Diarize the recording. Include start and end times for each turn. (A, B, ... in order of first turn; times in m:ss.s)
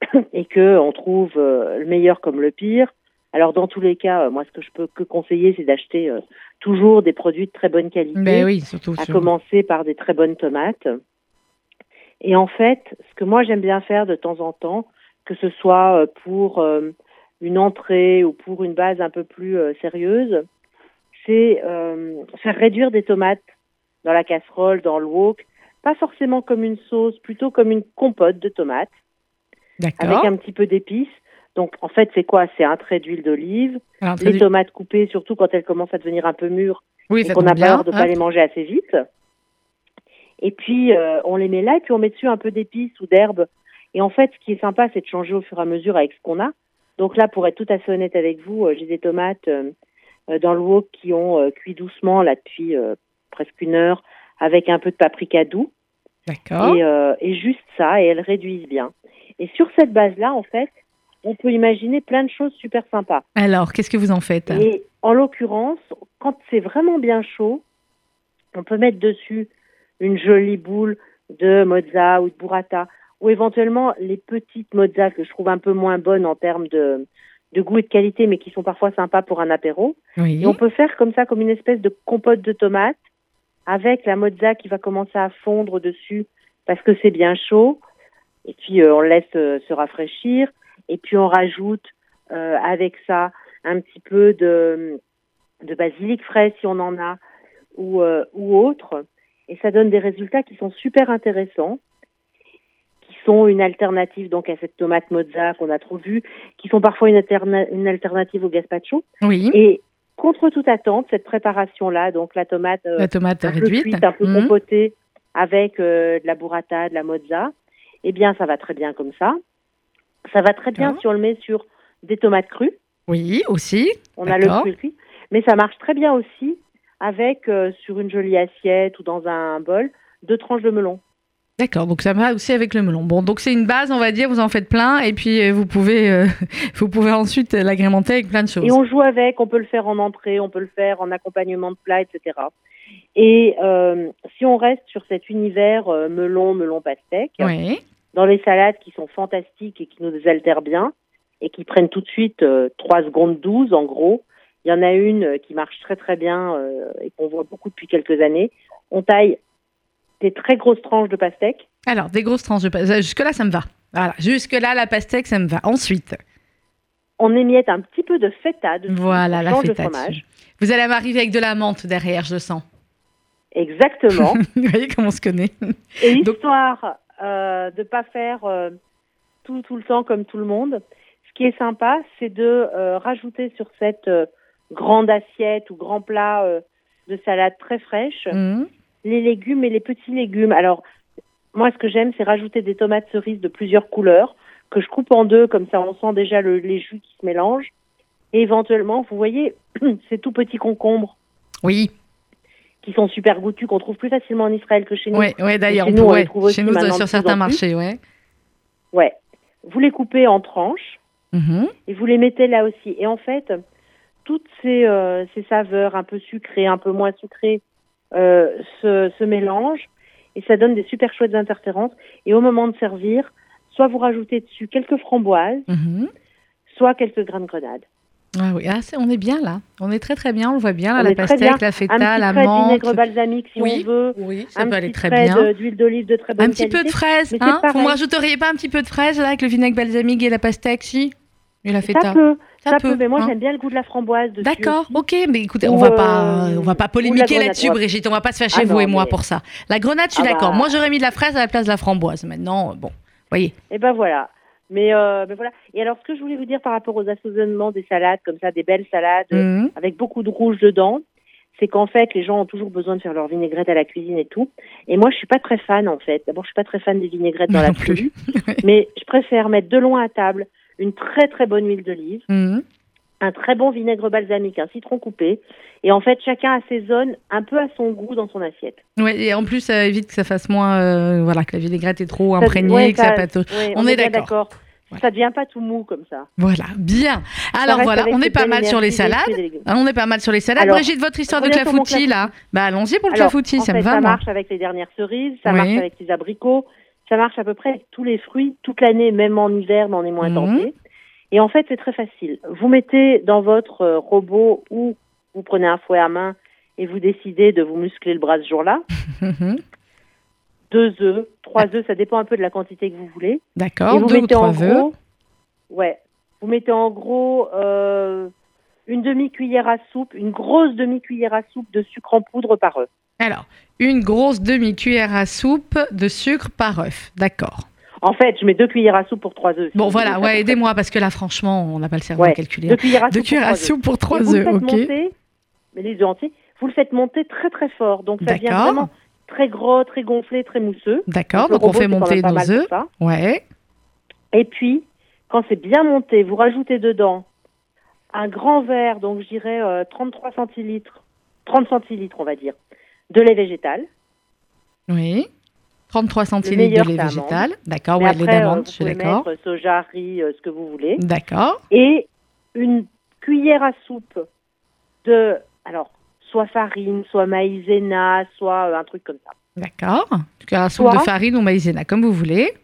0:00.3-0:11.0 A
0:08.2-0:09.3 B
0:12.2-0:20.4 A
0:21.2-0:23.4 A
0:24.0-0:28.9 A
0:29.8-0:30.3 B
0:30.0-0:39.0 A
0:34.0-0:34.4 B
0:37.1-0:38.1 B
0:40.4-0:49.7 A
0:50.3-0:55.7 A
0:56.3-0:56.8 B
0:56.6-1:00.7 A
1:01.2-1:03.2 A
1:03.4-1:04.7 B
1:04.5-1:07.6 A
1:08.5-1:23.0 A
1:20.2-1:20.6 B
1:23.7-1:27.8 A
1:28.4-1:35.0 A
1:35.6-1:37.2 A
1:37.8-1:41.8 A
1:43.0-1:57.5 A
1:49.2-1:49.6 B
1:53.0-1:54.5 B
1:58.0-1:59.4 A
2:00.3-2:02.8 A
2:03.1-2:04.7 B
2:04.2-2:11.0 A
2:11.6-2:18.8 B
2:18.6-2:22.5 A
2:23.2-2:27.5 A
2:27.4-2:27.8 B
2:28.1-2:39.4 A
2:40.2-2:41.6 A
2:41.8-2:46.2 B
2:47.2-2:50.2 A
2:48.9-2:52.6 B
2:53.5-2:54.4 A
2:54.2-2:56.3 B
2:56.0-2:58.8 A
2:59.4-3:08.4 A
3:08.3-3:08.7 B
3:09.0-3:10.8 A
3:11.5-3:17.7 A
3:18.3-3:21.1 A
3:21.6-3:21.9 B
3:22.8-3:27.6 A
3:25.1-3:28.0 B
3:28.9-3:31.0 A
3:31.3-3:31.7 B
3:31.9-3:33.6 A
3:34.2-3:37.6 A
3:38.1-3:45.6 A
3:45.7-3:46.1 B
3:46.7-3:47.8 A
3:48.4-3:53.0 B
3:51.0-3:58.0 A
3:53.6-3:55.5 B
3:56.4-4:03.3 B
4:01.8-4:05.0 A
4:04.4-4:13.5 B
4:05.6-4:07.8 A
4:08.5-4:09.2 A
4:10.1-4:10.7 A
4:13.7-4:21.0 A
4:19.3-4:19.7 B
4:21.5-4:28.1 A
4:27.5-4:28.6 B
4:28.6-4:32.2 A
4:32.3-4:32.6 B
4:33.2-4:38.8 A
4:39.0-4:44.3 B
4:42.4-4:46.3 A
4:46.4-4:54.2 B
4:47.6-4:49.6 A
4:50.6-4:52.3 A
4:53.1-5:00.7 A
4:55.5-4:55.8 B
5:00.2-5:00.7 B
5:01.3-5:08.8 A
5:09.2-5:09.6 B
5:10.7-5:14.9 A
5:13.6-5:14.9 B
5:15.7-5:18.3 A
5:18.9-5:22.9 A
5:23.2-5:27.6 B
5:28.0-5:30.6 A
5:29.7-5:34.9 B
5:32.2-5:35.1 A
5:35.7-5:42.9 A
5:38.2-5:38.9 B
5:41.1-5:43.4 B
5:44.3-5:47.2 A
5:48.1-5:52.6 A
5:53.1-5:53.9 A
5:54.9-5:55.3 B
5:55.9-5:59.2 B
5:56.4-6:01.0 A
6:01.0-6:01.6 B
6:01.7-6:04.2 A
6:05.0-6:09.3 A
6:09.6-6:12.5 B
6:10.8-6:11.1 A